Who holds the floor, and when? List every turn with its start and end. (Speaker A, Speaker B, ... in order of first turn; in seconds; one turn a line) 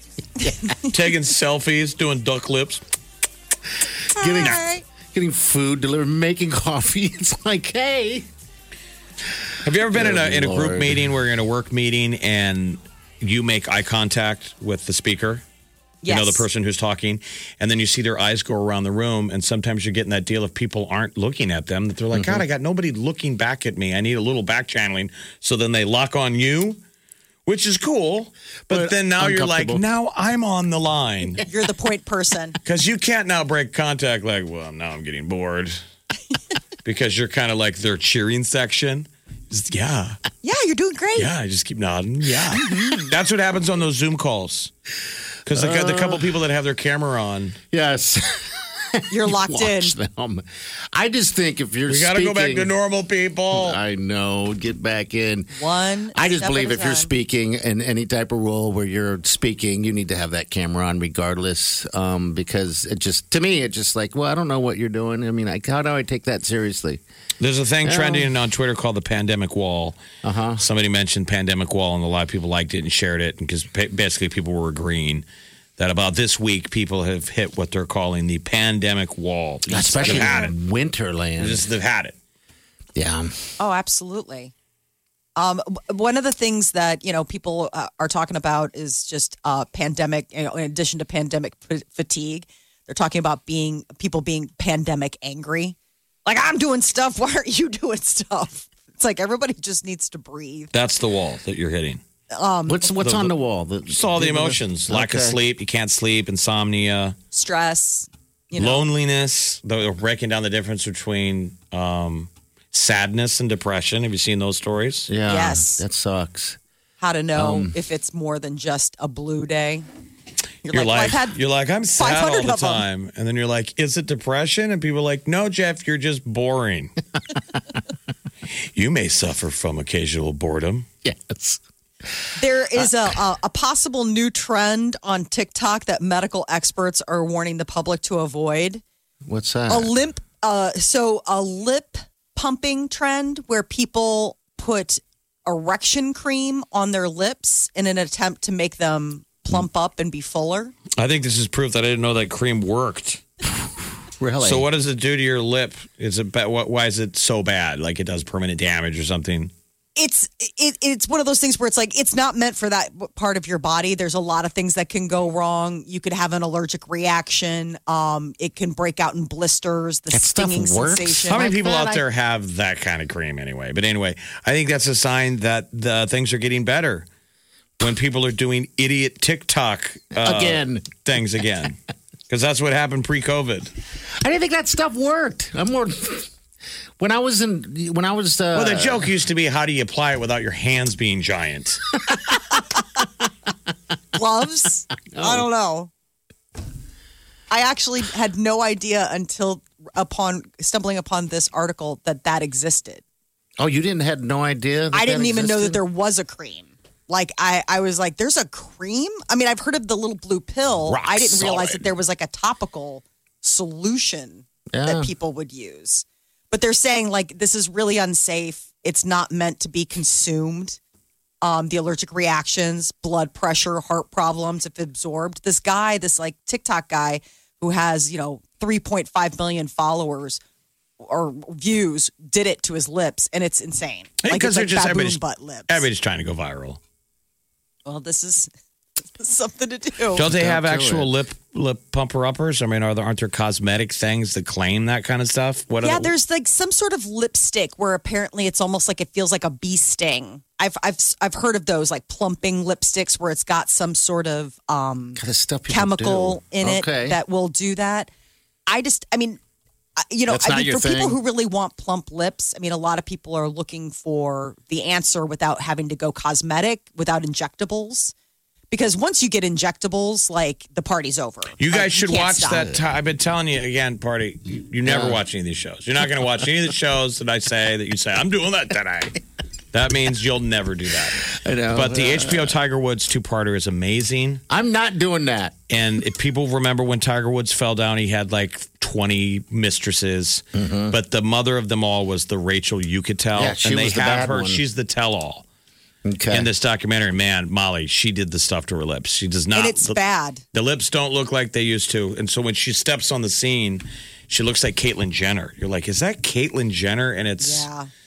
Speaker A: 0.5-0.7
Speaker B: 0.9-2.8
Speaker A: 4.1-4.6
Speaker C: 4.2-4.8
Speaker A: 5.1-8.3
Speaker B: 9.6-15.4
Speaker A: 9.9-11.1
Speaker C: 16.0-16.4
Speaker B: 16.1-26.8
Speaker A: 22.1-22.4
Speaker B: 27.4-31.4
Speaker A: 28.7-29.8
Speaker C: 31.4-32.6
Speaker B: 32.6-35.8
Speaker B: 36.8-40.2
Speaker C: 40.4-41.3
Speaker B: 41.1-44.7
Speaker C: 42.5-43.1
Speaker B: 45.5-47.6
Speaker A: 45.5-46.4
Speaker A: 47.7-52.7
Speaker C: 49.1-49.9
Speaker B: 51.9-53.8
Speaker A: 53.5-55.5
Speaker C: 55.5-57.1
Speaker A: 56.1-67.0
Speaker B: 67.4-70.0
Speaker A: 67.8-68.3
Speaker A: 70.2-70.6
Speaker B: 70.6-75.2
Speaker B: 75.8-80.5
Speaker A: 79.7-81.7
Speaker B: 81.4-82.2
Speaker A: 83.0-83.3
Speaker C: 83.6-84.5
Speaker C: 85.3-100.7
Speaker B: 100.7-102.0
Speaker C: 102.3-102.8
Speaker A: 102.7-105.4
Speaker B: 103.0-103.3
Speaker B: 103.9-107.2
Speaker C: 107.3-108.9
Speaker B: 108.6-115.1
Speaker A: 115.1-116.6
Speaker C: 115.3-115.8
Speaker C: 117.0-119.8
Speaker A: 117.3-117.7
Speaker C: 120.6-121.4
Speaker B: 120.7-126.9
Speaker C: 122.0-122.8
Speaker B: 128.7-130.8
Speaker A: 131.0-131.6
Speaker C: 132.4-138.8
Speaker A: 132.7-133.1
Speaker A: 139.2-139.9
Speaker C: 139.7-150.7
Speaker B: 151.0-153.2
Speaker A: 154.2-154.7
Speaker B: 154.4-159.5
Speaker C: 159.9-172.0
Speaker A: 170.1-171.5
Speaker B: 171.3-177.1
Speaker B: 177.8-181.8
Speaker A: 180.1-181.0
Speaker B: 182.3-183.7
Speaker A: 184.2-186.3
Speaker A: 187.0-189.1
Speaker B: 188.5-191.8
Speaker C: 194.1-195.9
Speaker A: 195.1-195.5
Speaker C: 197.5-203.0
Speaker A: 203.6-205.8
Speaker C: 204.9-220.8
Speaker B: 210.9-211.9
Speaker A: 214.7-215.1
Speaker C: 221.4-230.4
Speaker C: 231.0-235.8
Speaker B: 234.2-236.8
Speaker C: 237.8-238.5
Speaker C: 239.2-240.2
Speaker B: 240.1-246.1
Speaker A: 240.2-241.1
Speaker C: 245.8-258.1
Speaker A: 255.2-257.2
Speaker C: 258.7-259.4
Speaker C: 260.0-268.1
Speaker A: 260.3-261.2
Speaker C: 268.7-272.7
Speaker B: 271.6-279.1
Speaker A: 272.5-272.8
Speaker A: 274.8-275.2
Speaker B: 279.7-284.4
Speaker A: 281.3-282.6
Speaker A: 284.5-285.6
Speaker B: 285.7-295.4
Speaker A: 290.5-291.0
Speaker A: 293.3-294.6
Speaker A: 296.0-296.5
Speaker B: 296.3-300.0
Speaker C: 299.5-300.4
Speaker B: 300.5-307.6
Speaker C: 307.4-307.9